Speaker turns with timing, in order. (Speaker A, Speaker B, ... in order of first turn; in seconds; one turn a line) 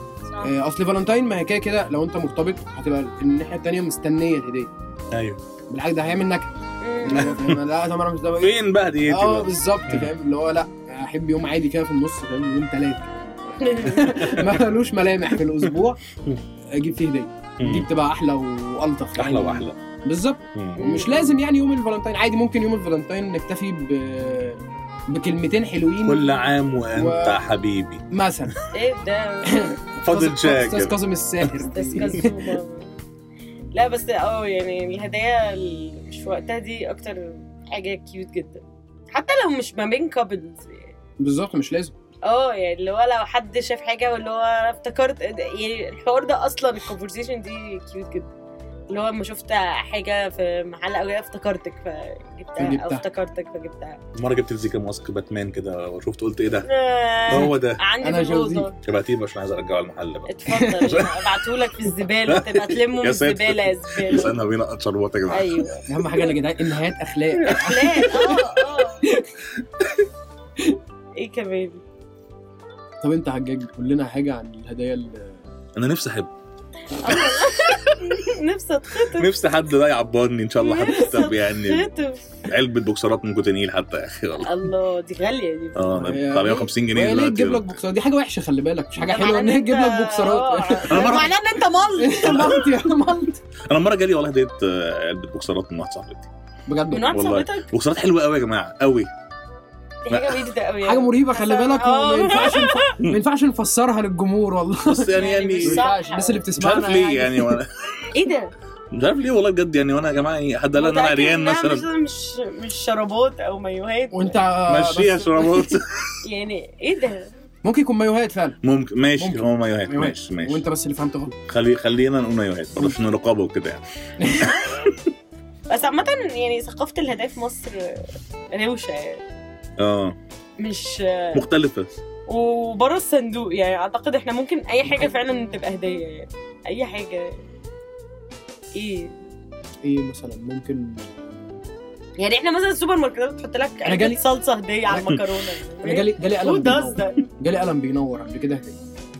Speaker A: 0.4-4.7
Speaker B: 5.1-5.4
Speaker A: 5.7-6.5
Speaker C: 6.8-7.3
Speaker A: 7.0-8.5
Speaker B: 7.1-7.6
Speaker B: 8.4-10.1
Speaker A: 9.1-13.1
Speaker C: 13.6-14.5
Speaker A: 13.8-16.0
Speaker A: 16.7-26.4
Speaker B: 17.6-17.9
Speaker B: 19.1-19.8
Speaker B: 20.5-20.8
Speaker C: 20.8-21.3
Speaker B: 26.0-28.0
Speaker A: 26.9-27.4
Speaker A: 28.1-28.6
Speaker C: 28.7-29.8
Speaker A: 29.5-32.5
Speaker B: 30.0-32.1
Speaker C: 31.7-32.9
Speaker C: 33.7-40.9
Speaker A: 41.2-41.9
Speaker C: 42.2-48.3
Speaker C: 48.9-54.0
Speaker A: 52.6-53.0
Speaker B: 54.1-56.7
Speaker C: 56.6-58.8
Speaker B: 57.3-57.8
Speaker A: 57.3-58.7
Speaker B: 58.8-61.2
Speaker C: 60.3-64.3
Speaker A: 60.5-61.0
Speaker B: 62.2-65.7
Speaker C: 65.3-66.3
Speaker A: 65.9-69.3
Speaker C: 67.4-69.1
Speaker C: 71.2-71.8
Speaker A: 73.0-75.4
Speaker B: 75.8-76.3
Speaker C: 77.0-79.3
Speaker B: 77.0-77.5
Speaker B: 79.0-81.9
Speaker C: 80.6-82.2
Speaker B: 82.5-84.6
Speaker C: 84.4-85.9
Speaker B: 85.8-87.7
Speaker A: 85.9-91.3
Speaker C: 89.0-92.6
Speaker B: 90.9-91.3
Speaker A: 92.0-93.4
Speaker B: 93.7-96.3
Speaker A: 96.7-97.1
Speaker C: 96.9-97.7
Speaker B: 97.1-99.1
Speaker C: 100.0-103.0
Speaker B: 100.1-100.4
Speaker A: 100.8-107.6
Speaker B: 104.8-105.9
Speaker C: 105.1-106.4
Speaker B: 106.6-108.1
Speaker C: 108.1-108.5
Speaker B: 108.9-111.8
Speaker C: 110.8-114.4
Speaker A: 114.1-115.7
Speaker B: 114.7-116.2
Speaker C: 116.2-117.3
Speaker A: 117.6-118.6
Speaker B: 118.6-120.6
Speaker A: 119.2-121.3
Speaker B: 121.5-125.0
Speaker A: 124.2-124.5
Speaker C: 125.7-129.2
Speaker B: 129.8-130.1
Speaker C: 130.6-131.4
Speaker B: 131.3-131.9
Speaker C: 132.3-137.4
Speaker C: 138.7-139.1
Speaker A: 139.8-141.1
Speaker C: 142.2-147.2
Speaker A: 143.8-144.2
Speaker A: 144.9-145.2
Speaker A: 145.8-148.8